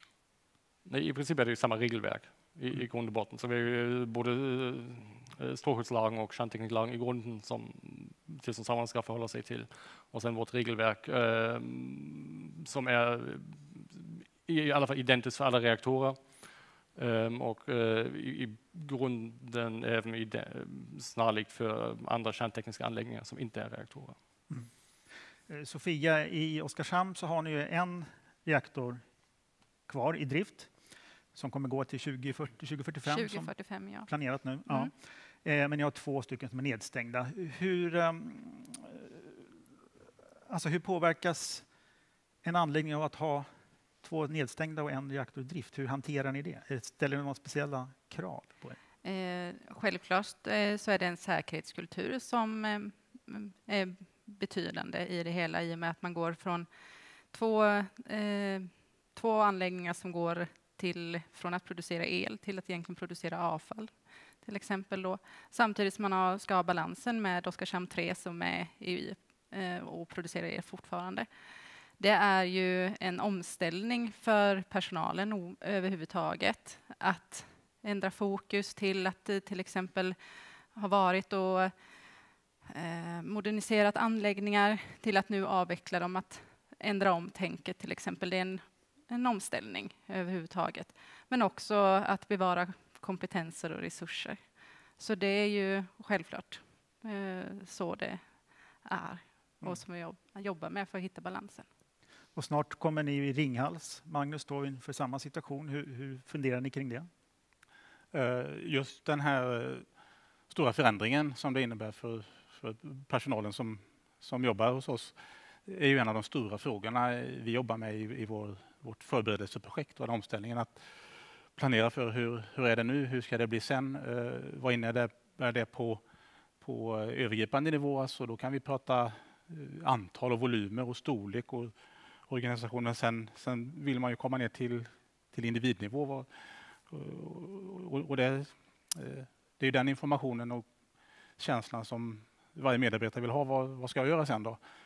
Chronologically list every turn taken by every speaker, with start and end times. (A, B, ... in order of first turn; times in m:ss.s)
0:00.8-0:24.2 A
0:25.5-0:29.0 B
0:29.9-0:30.7 B
0:31.3-0:39.3 B
0:33.1-0:34.1 C
0:40.5-0:41.7 B
0:42.4-0:43.5 B
0:44.0-0:48.8 B
0:49.0-0:56.7 C
0:57.3-1:11.3 C
1:12.0-1:20.2 C
1:20.7-1:21.7 C
1:22.7-1:38.3 C
1:38.8-1:41.7 C
1:42.4-1:47.1 B
1:48.1-1:49.9 D
1:50.5-2:06.0 D
2:06.6-2:11.8 D
2:12.3-2:20.7 D
2:21.4-2:24.6 D